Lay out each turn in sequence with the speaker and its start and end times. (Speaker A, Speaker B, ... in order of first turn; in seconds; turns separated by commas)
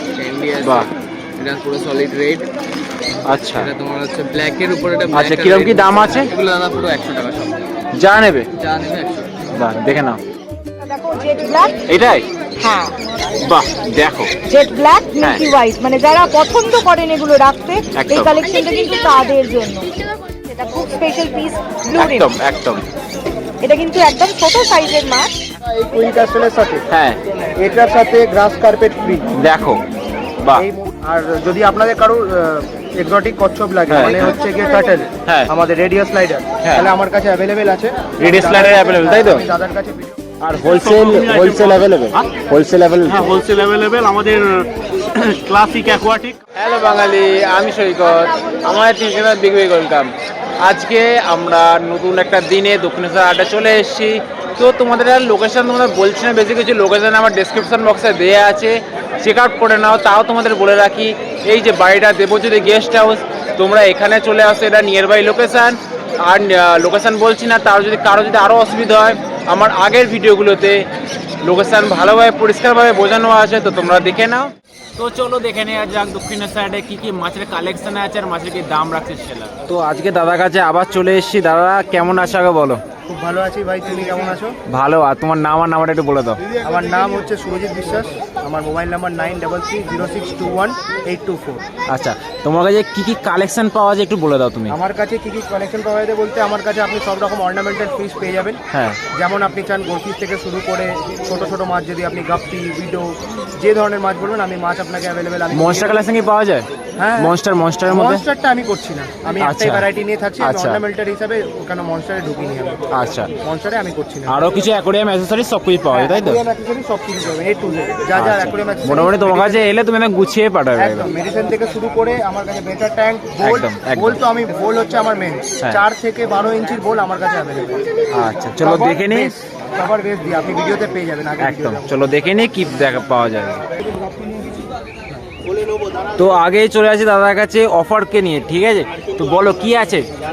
Speaker A: 0.1-2.5, Speaker B: 0.6-0.9, Speaker B: 3.2-3.7, Speaker A: 3.5-7.6, Speaker B: 5.1-6.3, Speaker B: 7.9-8.5, Speaker A: 8.6-9.3, Speaker B: 9.5-10.2, Speaker C: 10.8-11.8, Speaker B: 11.9-12.3, Speaker C: 12.6-12.9, Speaker B: 13.4-14.3, Speaker C: 14.4-22.3, Speaker B: 17.9-18.3, Speaker B: 22.0-22.8, Speaker C: 23.6-25.4, Speaker D: 25.6-26.8, Speaker B: 26.9-27.2, Speaker D: 27.5-29.3, Speaker B: 29.3-29.8, Speaker D: 30.5-40.1, Speaker B: 33.9-34.5, Speaker B: 36.6-36.9, Speaker B: 38.2-39.5, Speaker B: 40.4-43.3, Speaker E: 40.6-41.9, Speaker E: 43.1-46.4, Speaker B: 46.5-70.9, Speaker B: 71.4-82.8, Speaker D: 83.1-84.6, Speaker B: 84.7-86.4, Speaker D: 86.5-91.6, Speaker B: 91.9-94.8, Speaker D: 94.7-98.6, Speaker B: 98.7-99.0, Speaker D: 99.1-106.0, Speaker B: 105.5-108.2, Speaker D: 107.0-107.3, Speaker D: 107.9-112.8, Speaker B: 109.4-109.9, Speaker B: 110.4-110.8, Speaker B: 112.9-113.3, Speaker D: 113.4-114.4, Speaker B: 114.3-116.4, Speaker D: 115.9-119.7, Speaker B: 118.1-121.1, Speaker D: 120.8-127.8, Speaker B: 123.4-124.2, Speaker B: 128.1-129.3, Speaker D: 128.6-132.1, Speaker B: 131.4-133.6, Speaker B: 136.2-140.1